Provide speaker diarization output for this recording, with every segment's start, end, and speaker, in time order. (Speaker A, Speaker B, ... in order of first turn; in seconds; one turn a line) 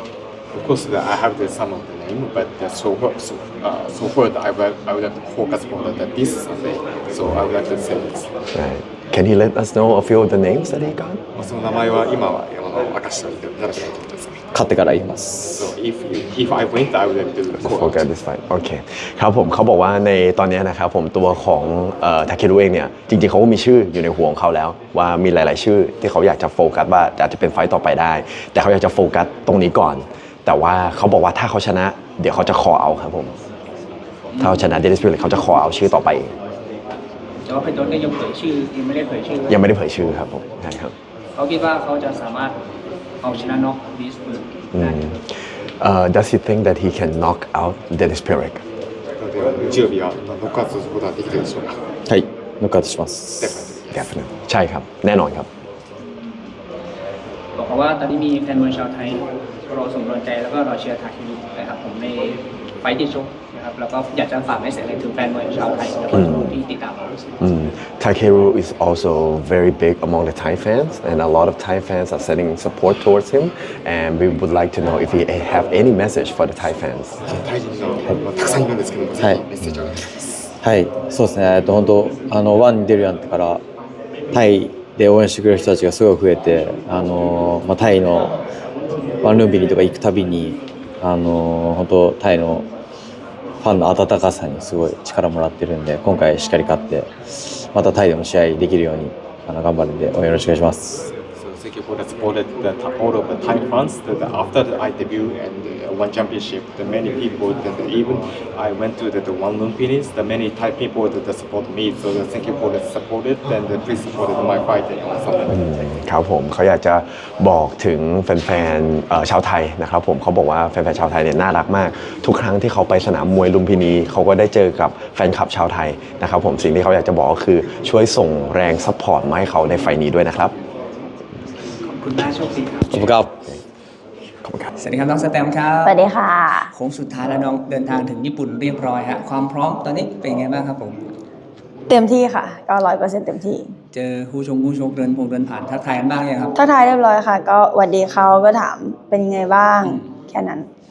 Speaker A: 0.5-8.3
Speaker B: 8.5-11.2
Speaker A: 11.3-14.5
Speaker C: 14.5-15.7
Speaker A: 15.6-18.1
Speaker B: 17.6-33.3
Speaker D: 34.3-34.7
Speaker B: 34.4-36.3
Speaker D: 37.5-39.6
Speaker B: 39.5-40.9
Speaker D: 41.4-42.6
Speaker D: 43.2-45.0
Speaker B: 44.7-45.2
Speaker B: 45.8-48.6
Speaker A: 49.2-51.8
Speaker C: 52.1-53.5
Speaker A: 53.4-54.1
Speaker B: 53.9-55.5
Speaker D: 57.6-67.2
Speaker B: 66.1-66.6
Speaker B: 67.4-77.2
Speaker A: 77.2-80.5
Speaker C: 80.6-83.6
Speaker C: 84.3-88.3
Speaker C: 89.2-92.7
Speaker C: 93.6-101.1
Speaker A: 101.3-115.6
Speaker B: 115.5-130.5
Speaker D: 131.8-133.1
Speaker C: 132.9-133.3
Speaker B: 134.4-134.7
Speaker D: 134.8-136.0
Speaker E: 135.8-136.7
Speaker D: 136.7-141.0
Speaker E: 141.9-143.7
Speaker D: 143.9-146.6
Speaker E: 146.6-150.7